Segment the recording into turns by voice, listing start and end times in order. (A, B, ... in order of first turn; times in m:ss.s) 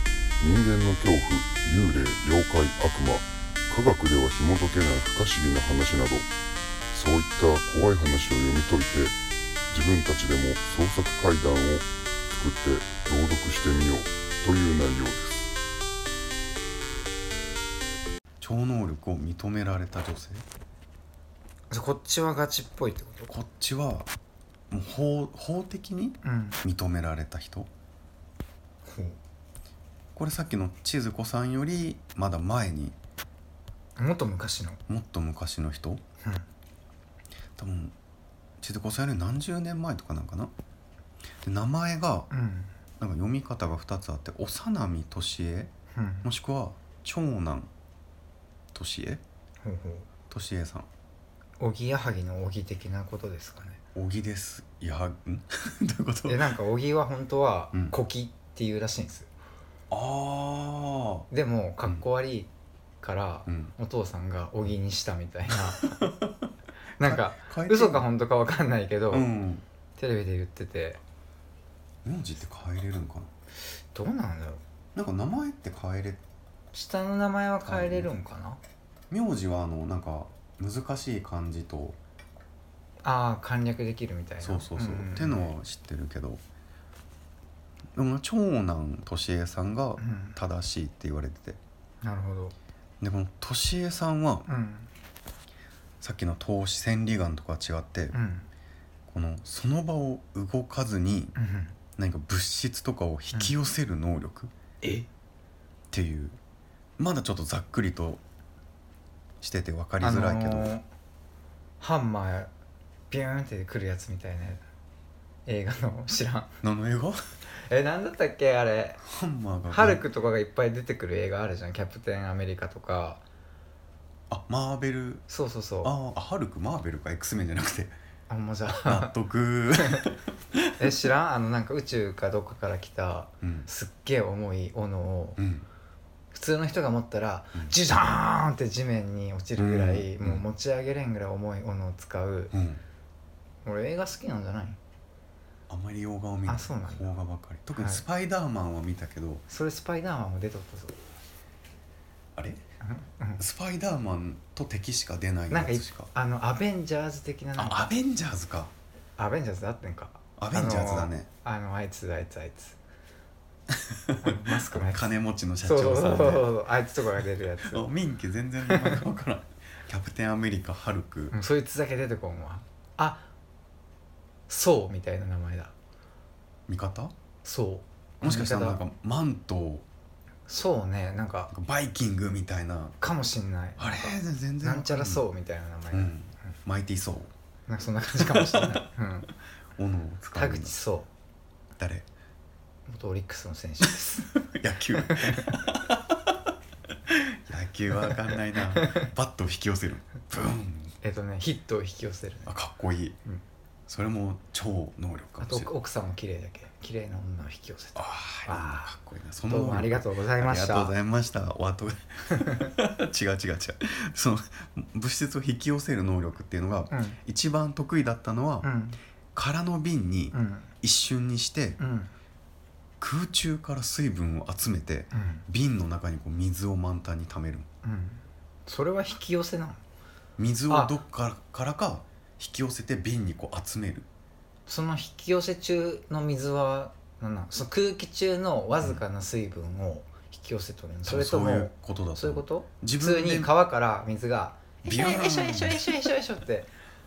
0:00.4-0:06.3 A
0:06.9-0:09.2 A
0:09.7-0:15.5 A
0:18.4-0:20.4 B
0:21.7-0:23.3 C
0:23.3-0:24.1 B
0:24.7-0:27.7 B
0:26.2-0:26.6 C
0:28.8-0:29.2 C
0:30.2-0:33.0 B
0:34.0-0:34.8 C
0:34.9-0:36.0 B
0:37.6-0:38.0 B
0:38.6-0:40.5 B
0:41.4-0:42.3 B
0:42.3-0:42.7 C
0:43.0-0:45.7 B
0:45.9-0:46.3 C
0:46.2-0:47.7 B
0:48.7-0:49.2 B
0:49.6-0:50.1 C
0:50.3-0:50.9 B
0:51.6-0:53.8 C
0:54.0-0:56.6 B
0:56.3-0:59.3 C
0:57.7-0:58.0 B
0:59.9-1:01.3 B
1:01.3-1:02.5 C
1:03.0-1:05.9 C
1:03.5-1:03.7 B
1:05.8-1:06.5 B
1:07.0-1:08.1 B
1:07.0-1:09.3 C
1:09.1-1:09.6 B
1:10.0-1:11.0 C
1:12.0-1:13.3 B
1:13.8-1:14.6 C
1:15.0-1:16.2 B
1:16.7-1:18.6 C
1:17.6-1:18.1 B
1:19.1-1:22.0 B
1:23.0-1:25.5 C
1:24.4-1:26.4 B
1:28.0-1:31.6 B
1:30.0-1:30.4 C
1:32.0-1:32.6 C
1:33.0-1:34.5 B
1:34.5-1:34.9 C
1:36.0-1:38.2 B
1:38.1-1:38.5 C
1:39.1-1:41.4 B
1:41.4-1:41.8 C
1:42.0-1:44.5 B
1:44.8-1:45.1 C
1:45.9-1:46.4 B
1:47.0-1:48.2 B
1:49.4-1:50.8 B
1:50.0-1:50.9 C
1:51.8-1:52.5 C
1:53.1-1:54.6 C
1:55.5-1:56.6 C
1:56.6-1:57.2 B
1:57.5-1:59.0 C
1:59.0-2:00.0 B
1:59.7-2:03.2 C
2:04.3-2:05.2 B
2:05.3-2:06.0 C
2:05.8-2:07.9 B
2:08.3-2:09.1 C
2:08.7-2:10.9 B
2:09.8-2:10.1 C
2:10.8-2:15.4 C
2:13.4-2:13.7 B
2:15.4-2:15.7 B
2:16.3-2:22.5 C
2:19.6-2:20.5 B
2:22.5-2:22.8 B
2:23.6-2:24.8 C
2:25.7-2:29.4 B
2:26.5-2:27.2 C
2:27.7-2:28.0 C
2:29.5-2:31.0 C
2:32.8-2:33.4 C
2:33.4-2:36.1 B
2:35.5-2:37.9 C
2:37.6-2:38.7 B
2:39.2-2:42.8 C
2:40.4-2:41.3 B
2:43.7-2:46.5 B
2:44.2-2:45.1 C
2:45.6-2:47.9 C
2:47.6-2:51.4 B
2:48.7-2:49.0 C
2:51.3-2:53.3 C
2:54.5-2:55.7 C
2:56.7-2:57.1 B
2:57.4-2:58.8 C
2:58.2-2:59.8 B
3:00.5-3:01.5 C
3:01.5-3:03.0 B
3:03.0-3:06.5 C
3:03.8-3:05.2 B
3:05.9-3:07.3 B
3:07.7-3:09.3 C
3:08.1-3:08.8 B
3:09.8-3:10.8 B
3:10.3-3:11.1 C
3:11.8-3:12.1 B
3:12.9-3:14.3 C
3:13.8-3:16.3 B
3:15.0-3:15.6 C
3:17.1-3:21.0 B
3:17.9-3:19.1 C
3:21.0-3:22.6 C
3:22.5-3:23.2 B
3:23.9-3:25.7 B
3:25.4-3:28.9 C
3:28.0-3:38.7 B
3:29.4-3:30.9 C
3:36.9-3:37.2 C
3:38.6-3:39.0 C
3:39.3-3:41.8 B
3:40.3-3:40.7 C
3:41.8-3:42.1 C
3:43.0-3:47.7 B
3:45.1-3:45.4 C
3:47.8-3:49.8 C
3:50.4-3:54.1 B
3:50.7-3:51.0 C
3:54.7-4:06.7 C
4:01.1-4:03.5 B
4:04.8-4:06.2 B